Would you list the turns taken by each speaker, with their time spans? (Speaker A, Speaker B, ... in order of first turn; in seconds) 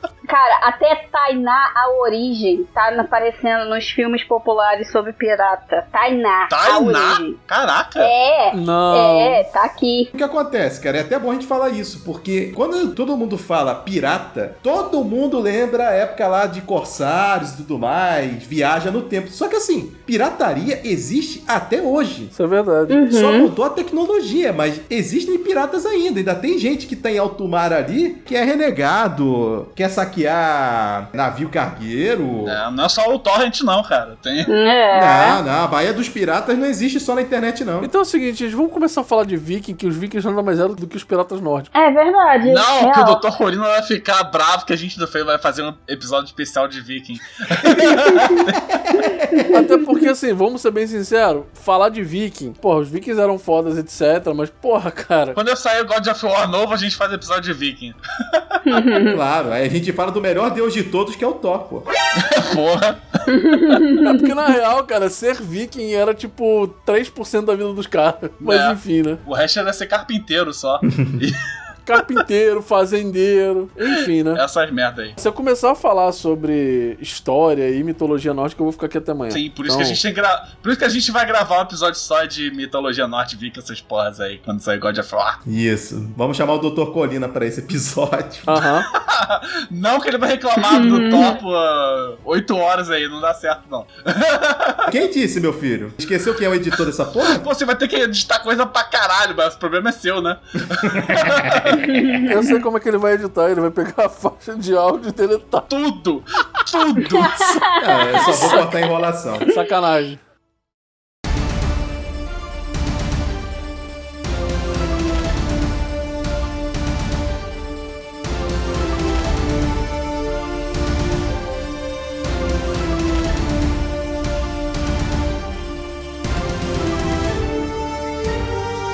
Speaker A: 0.3-7.4, 8.0-10.1, 22.9-23.5, 34.5-35.4, 41.7-43.2, 48.1-48.4, 49.3-49.7, 58.6-59.2, 63.3-64.2, 90.6-91.4, 101.8-102.4, 107.0-108.7
Speaker B: 6.5-8.1, 32.5-34.5, 42.4-48.6, 55.4-58.8, 62.1-63.0, 68.4-71.4, 74.3-75.2, 79.3-85.4, 88.9-94.9, 97.2-102.0, 105.7-107.6
Speaker C: 8.5-9.4, 22.3-23.0, 37.8-41.7, 49.5-55.4, 64.0-69.2, 71.9-74.4, 75.2-80.0, 88.5-88.9, 102.2-105.7, 108.2-108.6, 109.5-110.2
Speaker D: 10.1-22.3, 23.1-32.6, 34.9-37.9, 47.6-47.9, 48.5-49.6, 59.0-61.9, 85.5-88.6, 94.9-97.5, 100.8-101.8, 107.8-109.5